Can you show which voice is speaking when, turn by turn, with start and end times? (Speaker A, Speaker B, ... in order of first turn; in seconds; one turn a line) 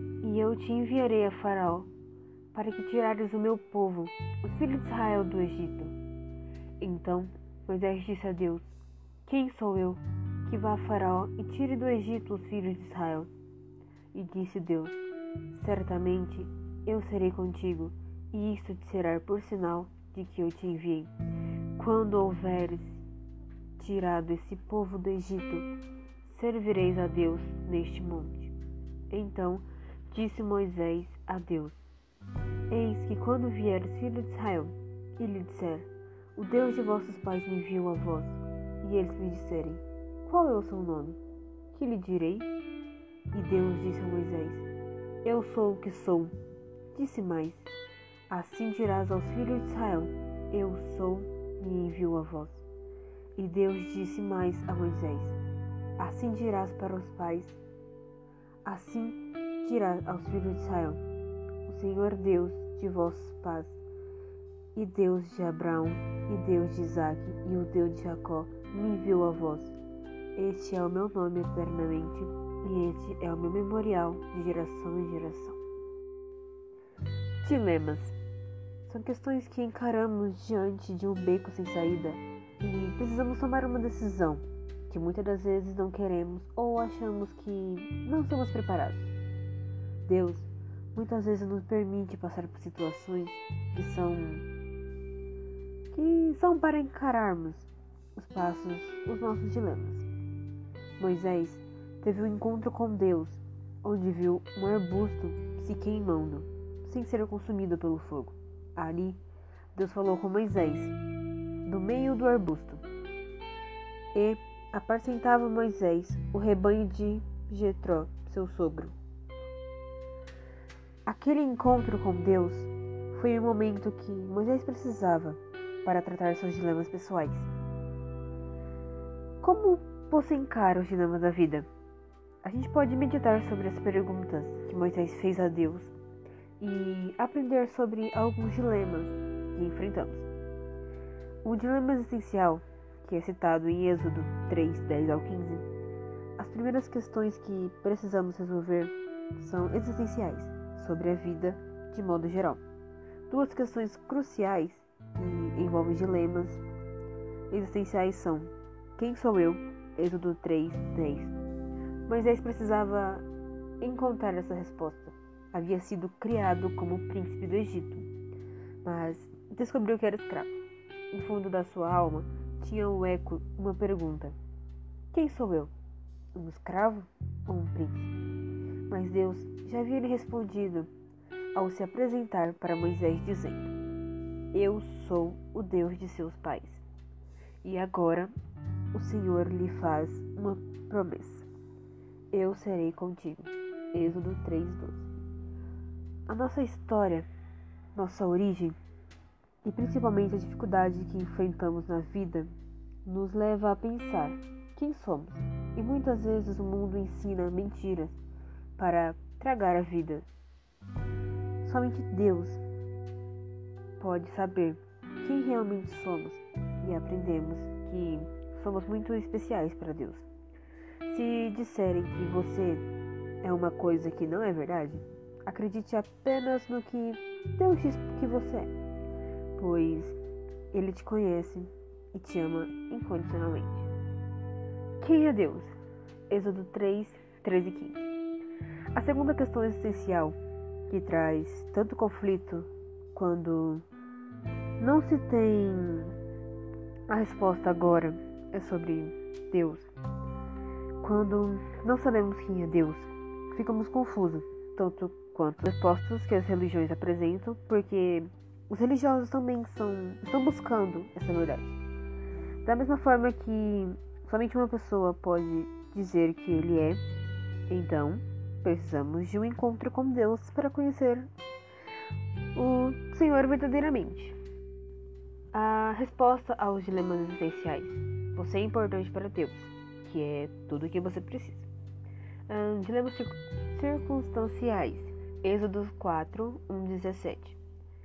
Speaker A: 0.2-1.9
Speaker A: 2.5-5.9
Speaker A: 6.8-13.3
Speaker A: 14.1-15.0
Speaker A: 15.5-21.1
Speaker A: 21.8-23.0
Speaker A: 23.8-25.7
Speaker A: 26.2-28.5
Speaker A: 29.1-31.8
Speaker A: 32.7-41.2
Speaker A: 41.7-42.5
Speaker A: 43.3-44.7
Speaker A: 45.2-46.3
Speaker A: 46.9-47.7
Speaker A: 48.3-52.6
Speaker A: 53.4-55.4
Speaker A: 56.0-57.6
Speaker A: 58.6-61.0
Speaker A: 61.6-63.8
Speaker A: 64.7-69.8
Speaker A: 70.3-75.6
Speaker A: 77.4-78.2
Speaker A: 78.8-89.1
Speaker A: 90.0-94.5
Speaker A: 95.9-100.1
Speaker A: 101.0-109.2
Speaker A: 109.7-110.9
Speaker A: 111.6-112.8
Speaker A: 114.1-119.0
Speaker A: 121.0-127.5
Speaker A: 129.4-131.7
Speaker A: 132.4-135.9
Speaker A: 136.6-140.3
Speaker A: 141.4-145.7
Speaker A: 146.4-152.6
Speaker A: 153.3-156.6
Speaker A: 157.5-161.3
Speaker A: 162.1-163.2
Speaker A: 163.8-168.1
Speaker A: 168.8-170.6
Speaker A: 171.1-174.4
Speaker A: 175.1-175.7
Speaker A: 176.3-178.1
Speaker A: 178.9-180.9
Speaker A: 181.5-183.7
Speaker A: 184.5-186.8
Speaker A: 187.6-188.3
Speaker A: 188.9-191.5
Speaker A: 192.3-195.1
Speaker A: 196.3-197.3
Speaker A: 197.9-198.8
Speaker A: 199.6-202.5
Speaker A: 203.0-208.2
Speaker A: 208.8-210.3
Speaker A: 211.6-212.6
Speaker A: 214.0-220.3
Speaker A: 221.0-222.8
Speaker A: 223.4-228.7
Speaker A: 229.6-230.2
Speaker A: 230.7-233.9
Speaker A: 235.0-235.7
Speaker A: 236.3-238.1
Speaker A: 238.9-240.4
Speaker A: 240.9-243.8
Speaker A: 244.8-246.2
Speaker A: 247.1-249.9
Speaker A: 251.0-261.8
Speaker A: 262.6-267.0
Speaker A: 267.7-271.3
Speaker A: 272.5-274.4
Speaker A: 275.5-281.7
Speaker A: 282.5-287.6